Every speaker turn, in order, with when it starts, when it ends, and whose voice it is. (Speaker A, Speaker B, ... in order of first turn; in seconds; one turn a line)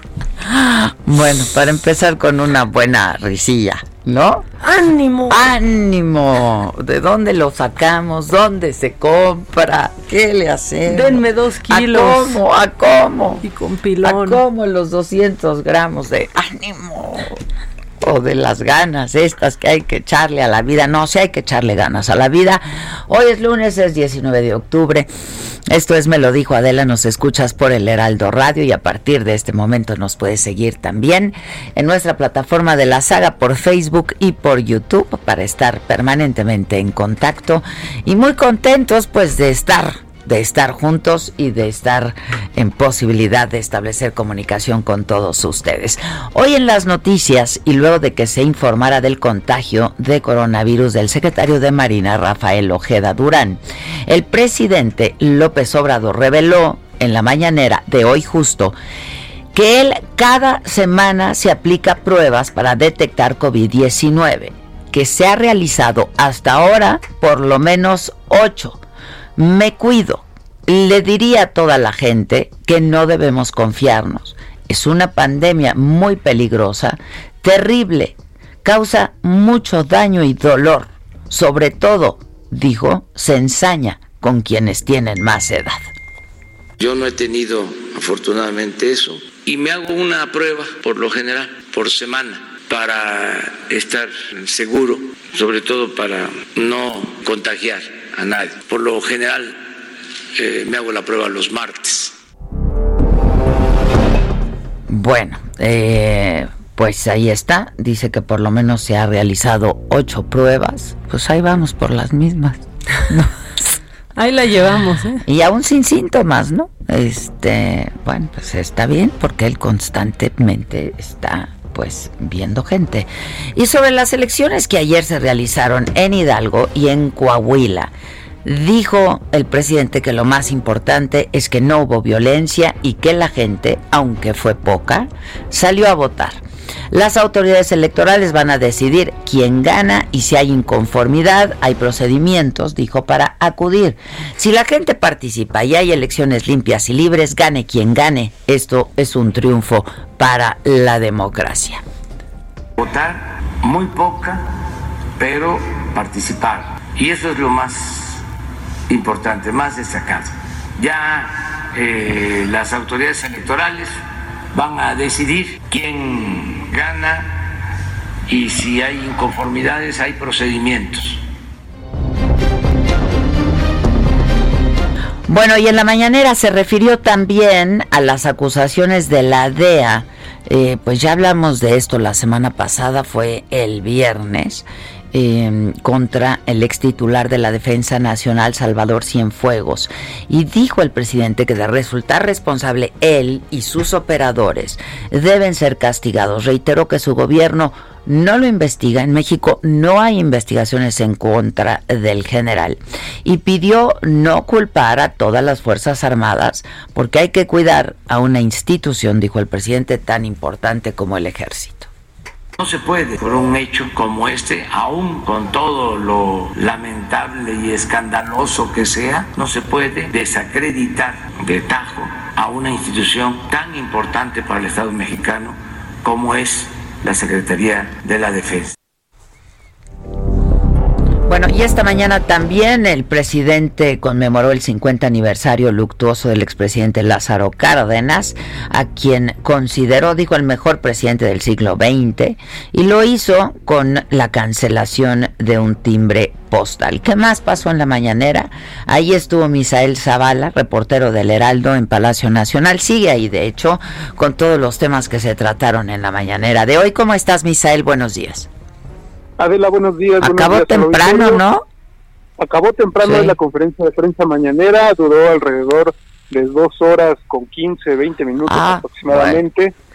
Speaker A: 0.4-4.5
Speaker B: 4.6-5.5
Speaker A: 5.3-13.4
Speaker B: 10.9-12.4
Speaker B: 13.4-14.4
Speaker A: 14.0-17.4
Speaker A: 18.0-25.1
Speaker A: 25.7-58.8
Speaker A: 59.5-68.8
Speaker A: 69.4-85.9
Speaker C: 86.8-99.6
Speaker C: 100.4-102.1
Speaker A: 104.9-113.3
Speaker B: 114.2-115.2
Speaker A: 115.2-127.9
Speaker A: 128.4-136.4
Speaker A: 136.9-151.8
Speaker C: 152.8-154.5
Speaker C: 155.2-158.2
Speaker C: 158.9-164.0
Speaker C: 164.5-167.4
Speaker C: 168.3-171.2
Speaker A: 175.3-211.9
Speaker C: 212.6-228.7
Speaker A: 231.3-258.5
Speaker D: 259.4-261.4
Speaker A: 260.2-261.6
Speaker D: 262.4-269.7
Speaker A: 263.0-263.4
Speaker A: 268.5-269.4